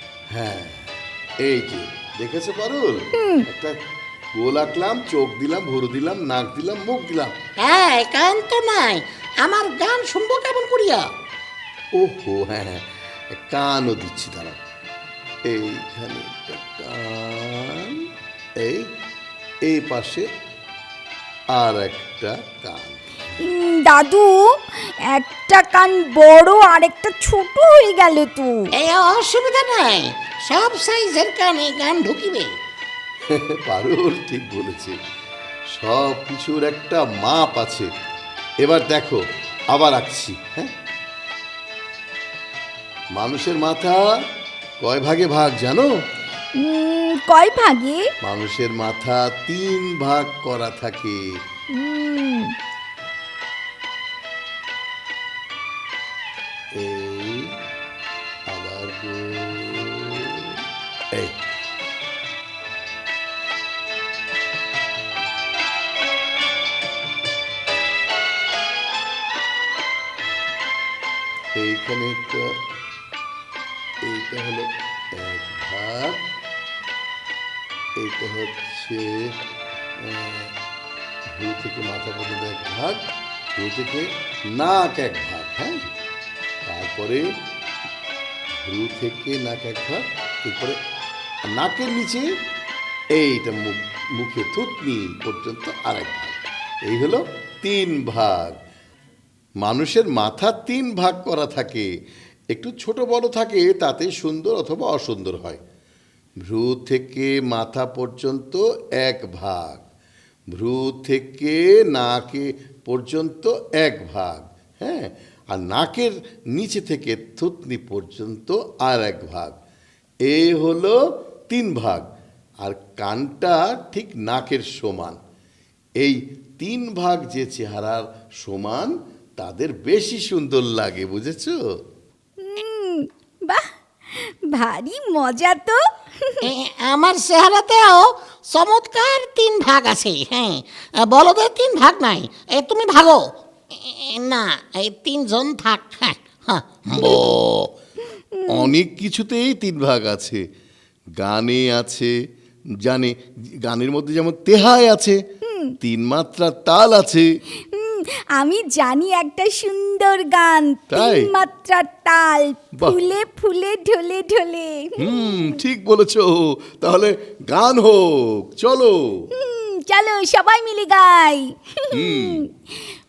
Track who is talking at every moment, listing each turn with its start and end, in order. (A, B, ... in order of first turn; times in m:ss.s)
0:00.3-0:00.9 A
0:01.4-0:03.7 A
0:03.2-0:03.4 B
0:04.4-0:07.3 A
0:07.6-0:11.0 C
0:12.0-0:14.6 A
0:15.5-0:18.0 A
0:19.7-0:20.2 A
0:21.6-0:23.2 A
0:23.4-0:28.7 B
0:28.8-0:32.5 C
0:33.3-0:34.9 A
0:35.7-0:37.9 A
0:38.6-0:40.7 A
0:43.2-0:44.0 A
0:44.8-0:45.9 A
0:46.6-0:48.0 B
0:48.2-0:51.2 A
0:51.7-0:52.5 B
0:56.8-0:57.4 A
0:58.5-1:00.6 A
1:01.1-1:01.4 A
1:11.6-1:12.4 A
1:14.0-1:16.2 A
1:18.0-1:19.1 A
1:20.0-1:20.5 A
1:21.4-1:23.0 A
1:23.5-1:25.8 A
1:26.6-1:27.2 A
1:28.6-1:30.8 A
1:31.5-1:32.3 A
1:33.1-1:38.5 A
1:39.6-1:41.9 A
1:42.5-1:45.6 A
1:46.5-1:49.8 A
1:50.5-1:59.6 A
2:00.3-2:01.0 A
2:01.5-2:02.0 A
2:02.6-2:05.2 A
2:06.0-2:11.6 A
2:12.4-2:16.4 B
2:16.4-2:23.2 C
2:23.8-2:27.2 C
2:26.9-2:27.7 A
2:28.3-2:28.7 B
2:28.5-2:30.4 A
2:31.2-2:32.1 A
2:32.8-2:35.2 A
2:35.4-2:35.7 B
2:35.8-2:37.2 A
2:37.7-2:45.6 B
2:40.9-2:41.3 A
2:45.0-2:49.0 A
2:49.4-2:52.5 B
2:51.9-2:52.4 A